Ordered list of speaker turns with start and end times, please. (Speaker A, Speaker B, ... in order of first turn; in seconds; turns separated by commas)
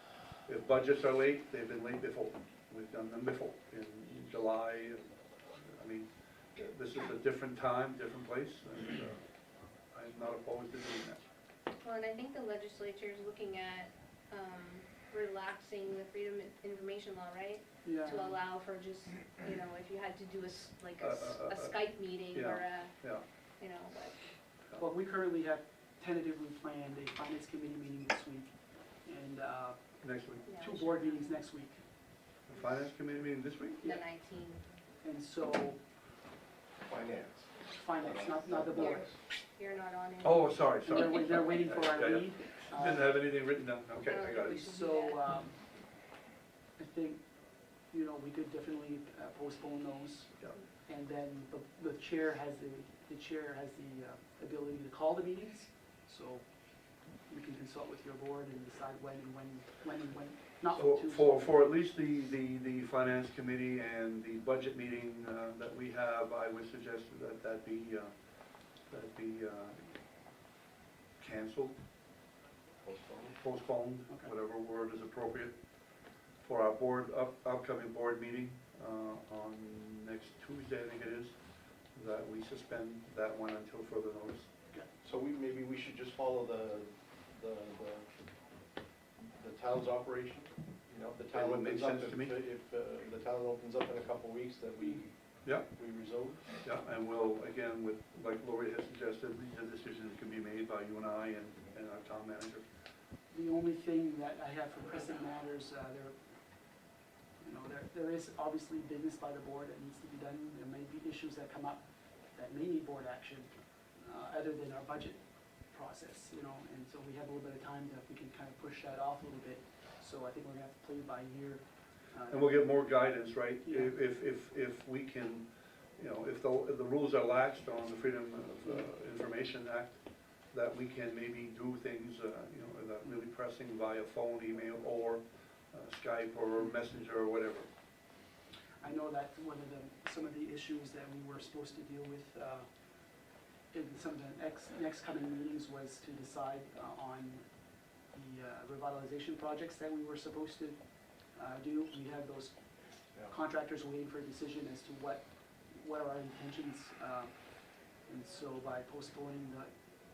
Speaker A: 0.3-9.2, Speaker A: 9.9-11.2, Speaker B: 11.8-22.9, Speaker C: 17.8-18.4, Speaker A: 21.0-23.2, Speaker B: 23.6-24.2, Speaker C: 24.8-29.8, Speaker A: 30.0-30.4, Speaker B: 30.4-31.4, Speaker C: 30.5-31.8, Speaker A: 32.5-33.8, Speaker B: 33.8-34.6, Speaker C: 35.0-35.8, Speaker D: 36.9-39.1, Speaker C: 37.6-39.2, Speaker B: 38.8-39.0, Speaker B: 39.5-40.5, Speaker A: 40.2-44.5, Speaker C: 40.8-43.2, Speaker B: 44.0-45.2, Speaker C: 44.4-45.6, Speaker C: 46.8-47.2, Speaker C: 47.9-56.4, Speaker C: 57.3-61.6, Speaker A: 60.7-68.1, Speaker A: 68.9-69.9, Speaker A: 71.2-71.8, Speaker D: 72.8-73.3, Speaker A: 73.3-75.5, Speaker A: 76.4-81.3, Speaker A: 81.9-84.5, Speaker D: 85.0-88.1, Speaker D: 89.4-95.1, Speaker A: 91.3-92.3, Speaker A: 95.4-95.7, Speaker D: 95.7-96.5, Speaker A: 96.6-102.7, Speaker C: 103.3-106.2, Speaker C: 107.4-122.7, Speaker A: 122.3-125.5, Speaker C: 123.6-123.9, Speaker A: 126.0-130.0, Speaker A: 130.5-137.7, Speaker C: 138.8-142.7, Speaker C: 143.7-147.4, Speaker C: 148.0-150.8, Speaker C: 151.3-152.5, Speaker C: 153.2-157.3, Speaker C: 158.1-159.7